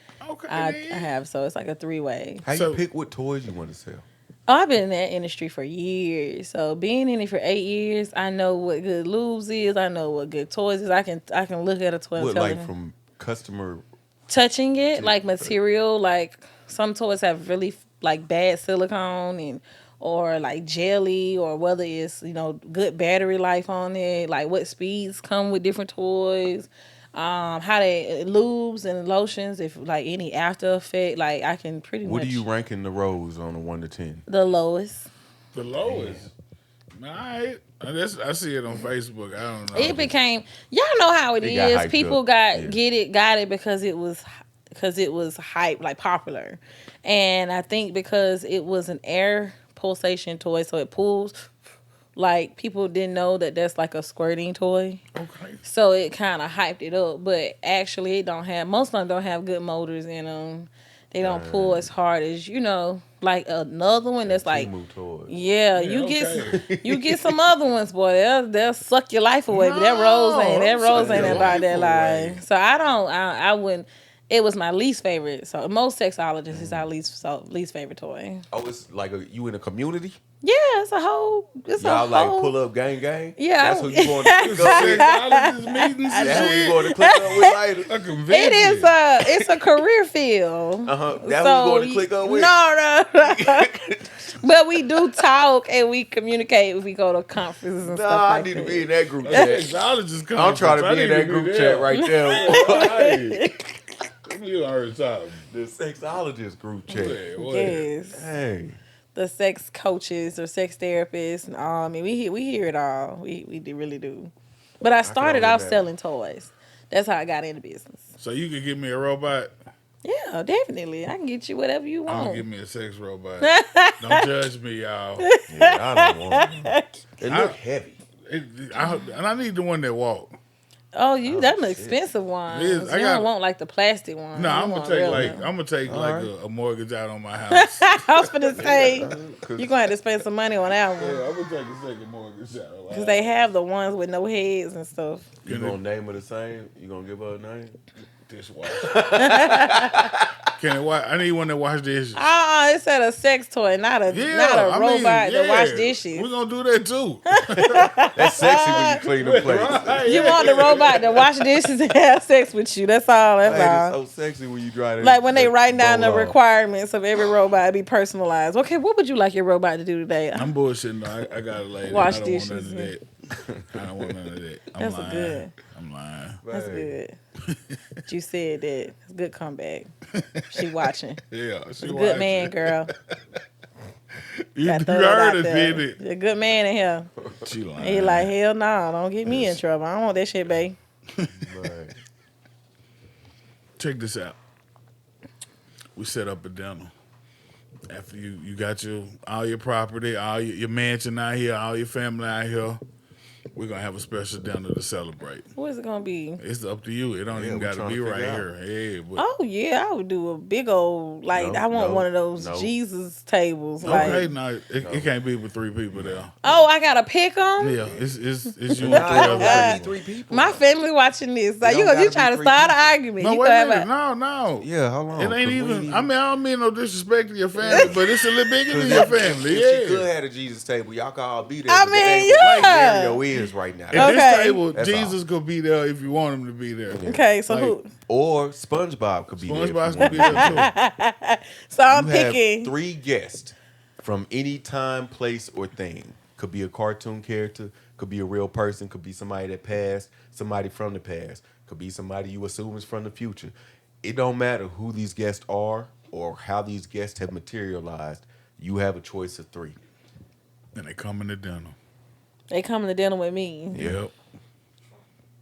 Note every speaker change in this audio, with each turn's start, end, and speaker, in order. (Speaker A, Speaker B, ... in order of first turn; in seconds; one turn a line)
Speaker A: 0.2-1.1
Speaker B: 0.5-2.4
Speaker C: 2.4-4.1
Speaker A: 2.5-2.8
Speaker B: 4.5-12.7
Speaker C: 12.2-13.8
Speaker B: 14.3-32.5
Speaker C: 14.9-15.6
Speaker C: 32.0-34.2
Speaker B: 34.3-35.1
Speaker A: 35.5-36.3
Speaker C: 35.8-36.2
Speaker A: 37.0-40.1
Speaker B: 39.7-51.4
Speaker C: 41.4-42.8
Speaker B: 52.2-55.0
Speaker A: 55.1-55.6
Speaker B: 55.6-64.7
Speaker C: 61.2-61.9
Speaker C: 64.2-65.3
Speaker B: 65.3-78.4
Speaker A: 65.8-66.7
Speaker C: 66.5-67.3
Speaker A: 69.5-72.4
Speaker C: 70.9-71.7
Speaker C: 76.5-76.9
Speaker C: 78.5-80.2
Speaker B: 80.4-82.6
Speaker C: 81.8-85.1
Speaker B: 83.4-87.5
Speaker A: 84.4-86.8
Speaker C: 86.2-87.9
Speaker A: 87.9-89.0
Speaker B: 88.3-93.7
Speaker C: 90.8-92.5
Speaker C: 93.2-94.3
Speaker B: 94.4-99.6
Speaker C: 97.8-99.7
Speaker A: 99.2-103.5
Speaker C: 100.3-103.0
Speaker B: 101.9-103.8
Speaker A: 104.2-105.4
Speaker C: 105.5-107.3
Speaker A: 106.9-107.9
Speaker B: 107.4-108.2
Speaker C: 108.1-108.8
Speaker B: 109.2-118.1
Speaker C: 115.0-115.8
Speaker A: 118.2-119.5
Speaker B: 120.0-122.5
Speaker A: 122.1-125.3
Speaker B: 123.4-124.3
Speaker B: 125.2-126.8
Speaker C: 125.5-128.0
Speaker A: 127.3-127.6
Speaker A: 128.3-130.3
Speaker B: 128.8-129.1
Speaker B: 130.9-135.5
Speaker C: 131.2-132.0
Speaker A: 132.5-133.3
Speaker A: 134.3-139.2
Speaker C: 135.1-136.3
Speaker B: 137.5-141.2
Speaker C: 138.6-139.8
Speaker A: 141.0-143.3
Speaker B: 142.9-145.3
Speaker C: 145.4-147.8
Speaker A: 145.5-145.8
Speaker A: 148.3-149.1
Speaker C: 148.7-150.3
Speaker B: 149.2-150.1
Speaker A: 150.6-152.3
Speaker B: 152.2-156.3
Speaker A: 154.1-157.8
Speaker B: 157.3-159.0
Speaker C: 157.6-160.5
Speaker A: 158.4-161.5
Speaker B: 160.0-164.0
Speaker C: 163.4-166.4
Speaker B: 165.0-170.6
Speaker A: 170.3-173.1
Speaker B: 171.9-172.9
Speaker C: 173.5-173.8
Speaker A: 173.7-176.4
Speaker B: 174.8-175.6
Speaker C: 176.4-176.9
Speaker B: 176.5-177.2
Speaker A: 177.5-177.8
Speaker B: 178.1-179.9
Speaker A: 180.1-180.7
Speaker B: 180.5-181.2
Speaker A: 181.3-183.4
Speaker B: 181.8-182.9
Speaker A: 184.5-186.0
Speaker B: 184.6-187.1
Speaker A: 187.4-188.3
Speaker B: 187.8-190.8
Speaker A: 189.3-189.5
Speaker A: 191.2-191.5
Speaker C: 191.4-192.0
Speaker A: 193.8-194.4
Speaker A: 196.0-196.9
Speaker A: 197.9-202.8
Speaker A: 203.6-205.5
Speaker B: 205.6-206.4
Speaker A: 206.4-209.2
Speaker C: 207.3-208.5
Speaker B: 209.2-214.3
Speaker C: 211.3-212.7
Speaker A: 213.8-216.3
Speaker C: 213.9-214.2
Speaker C: 214.8-215.1
Speaker C: 215.9-216.3
Speaker B: 216.4-217.9
Speaker A: 217.6-219.9
Speaker B: 218.7-223.9
Speaker C: 218.8-220.6
Speaker C: 221.6-222.9
Speaker A: 223.2-230.1
Speaker C: 224.6-226.1
Speaker B: 227.6-228.0
Speaker C: 227.7-227.9
Speaker C: 228.7-235.2
Speaker B: 231.7-233.2
Speaker A: 232.3-232.8
Speaker A: 233.9-237.8
Speaker B: 233.9-234.6
Speaker C: 236.9-237.2
Speaker B: 237.1-237.9
Speaker C: 238.1-240.7
Speaker A: 239.4-240.7
Speaker B: 240.0-242.7
Speaker C: 241.9-259.8
Speaker A: 260.8-261.8
Speaker B: 262.5-263.8
Speaker A: 263.7-264.1
Speaker C: 263.7-264.0